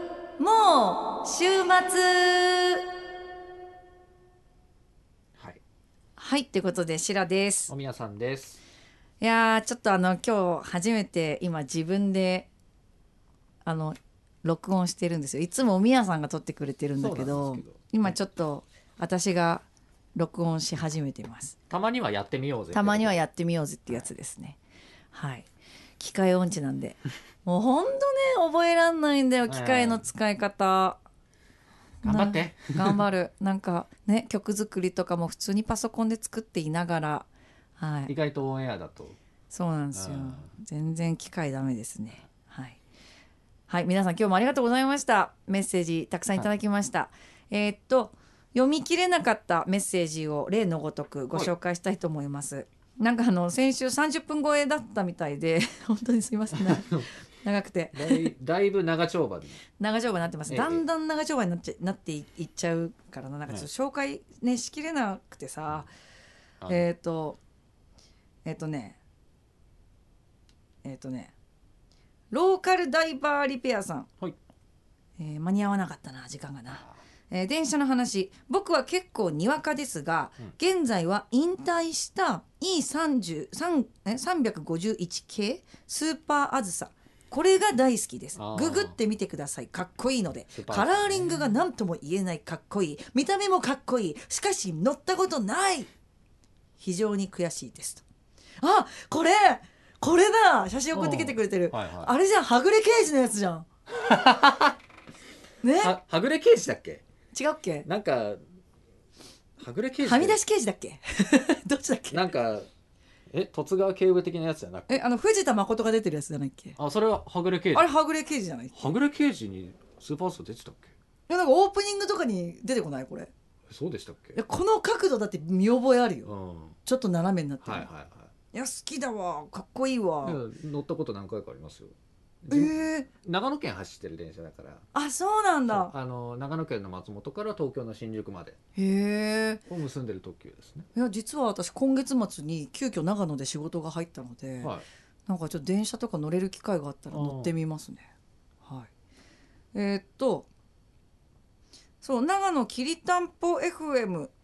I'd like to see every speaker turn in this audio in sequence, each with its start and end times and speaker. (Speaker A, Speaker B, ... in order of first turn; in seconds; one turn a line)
Speaker A: 0.4-2.8
Speaker B: 5.3-5.6
Speaker A: 6.2-7.7
Speaker B: 7.7-8.6
Speaker A: 9.2-12.5
Speaker A: 13.6-21.6
Speaker B: 17.0-18.2
Speaker B: 21.7-23.2
Speaker A: 22.7-24.6
Speaker A: 25.1-31.0
Speaker B: 29.5-30.1
Speaker B: 32.0-33.0
Speaker A: 32.0-38.1
Speaker B: 38.1-39.2
Speaker A: 39.5-42.8
Speaker B: 39.9-40.5
Speaker A: 43.7-58.3
Speaker B: 56.5-57.1
Speaker B: 57.9-59.6
Speaker A: 59.8-65.9
Speaker B: 60.5-60.8
Speaker A: 66.7-67.4
Speaker A: 68.4-69.0
Speaker A: 70.8-71.3
Speaker A: 72.3-74.1
Speaker A: 75.2-95.9
Speaker B: 88.3-89.0
Speaker B: 90.5-91.6
Speaker A: 96.8-98.0
Speaker A: 98.6-103.7
Speaker B: 100.9-102.1
Speaker B: 103.9-104.7
Speaker A: 105.6-106.0
Speaker B: 105.8-107.0
Speaker A: 107.3-107.8
Speaker B: 107.8-108.4
Speaker B: 109.6-110.4
Speaker A: 110.0-112.3
Speaker B: 112.1-112.7
Speaker B: 113.3-115.0
Speaker A: 114.9-116.8
Speaker B: 116.8-117.9
Speaker A: 117.7-118.9
Speaker B: 118.7-120.9
Speaker A: 121.3-123.3
Speaker B: 123.7-124.4
Speaker A: 124.3-126.3
Speaker B: 126.2-126.8
Speaker A: 126.8-127.9
Speaker B: 127.6-128.3
Speaker A: 128.5-130.4
Speaker B: 130.2-134.8
Speaker A: 132.5-133.1
Speaker A: 134.9-135.9
Speaker B: 135.7-138.6
Speaker A: 138.8-139.6
Speaker B: 139.7-140.9
Speaker A: 140.9-144.7
Speaker A: 145.3-148.1
Speaker B: 147.1-147.5
Speaker A: 148.6-148.9
Speaker A: 149.7-150.5
Speaker A: 152.0-154.3